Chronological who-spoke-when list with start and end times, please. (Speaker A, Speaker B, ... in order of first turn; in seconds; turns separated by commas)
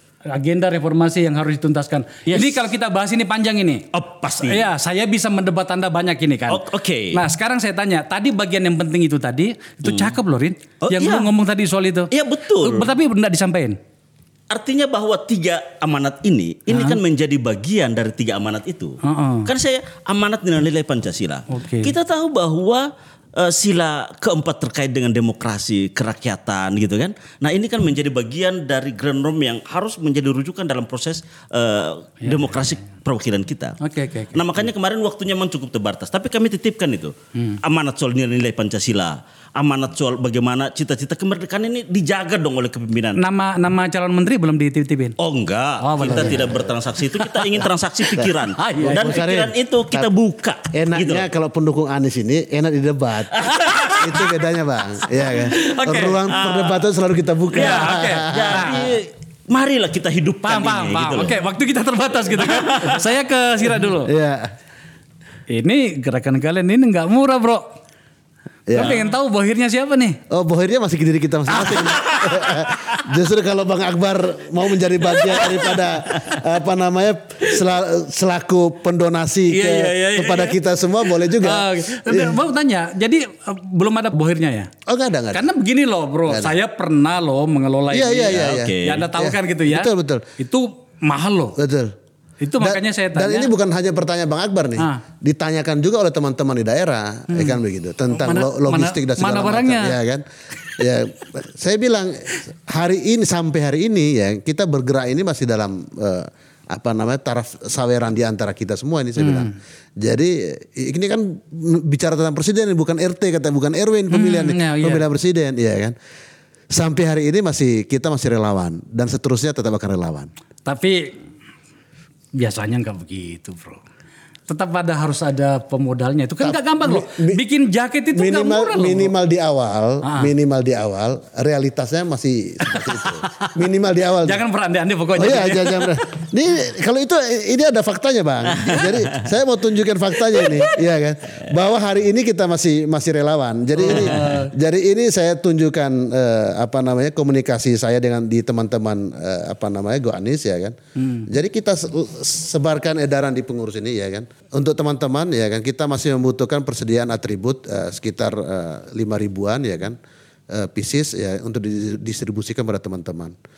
Speaker A: 0.3-3.9, Speaker B: 2.3-2.6, Speaker B: 3.9-4.7, Speaker A: 4.4-13.8, Speaker B: 6.5-7.2, Speaker B: 9.8-10.2, Speaker B: 10.8-11.3, Speaker B: 12.1-12.9, Speaker B: 14.5-33.8, Speaker A: 16.7-17.0, Speaker A: 19.0-19.5, Speaker A: 21.5-21.9, Speaker A: 32.2-32.7, Speaker A: 33.8-34.7, Speaker B: 34.3-43.2, Speaker A: 43.2-45.2, Speaker B: 45.2-51.3, Speaker A: 45.8-46.5, Speaker C: 46.0-46.7, Speaker A: 47.1-47.4, Speaker A: 48.6-49.2, Speaker C: 48.8-50.1, Speaker C: 50.7-58.9, Speaker B: 53.4-54.3, Speaker A: 53.6-54.0, Speaker A: 55.2-56.2, Speaker B: 56.3-56.9, Speaker A: 57.5-58.9, Speaker B: 57.5-61.4, Speaker A: 60.4-64.1, Speaker B: 62.3-63.1, Speaker C: 64.0-64.5, Speaker A: 65.5-67.7, Speaker C: 68.7-69.0, Speaker A: 68.7-70.2, Speaker C: 70.3-82.4, Speaker A: 71.5-72.6, Speaker A: 75.1-75.8, Speaker A: 79.5-84.7, Speaker C: 84.9-85.5, Speaker A: 85.3-91.6, Speaker C: 86.3-86.5, Speaker C: 87.9-90.2, Speaker B: 88.3-89.1, Speaker C: 91.6-91.9, Speaker A: 92.4-93.5, Speaker C: 92.6-116.0, Speaker A: 94.8-95.0, Speaker A: 97.3-97.6, Speaker A: 98.1-100.0, Speaker A: 109.2-109.5, Speaker A: 114.1-115.0, Speaker C: 116.7-120.3, Speaker A: 120.7-121.2, Speaker A: 122.4-123.8, Speaker A: 124.5-129.1, Speaker C: 126.4-127.4, Speaker C: 128.1-134.4, Speaker A: 130.0-130.3, Speaker A: 132.6-133.6, Speaker A: 134.2-136.1, Speaker C: 135.2-160.0, Speaker B: 138.6-139.2, Speaker A: 140.3-140.8, Speaker A: 143.8-144.5, Speaker A: 151.0-151.3, Speaker C: 160.5-163.4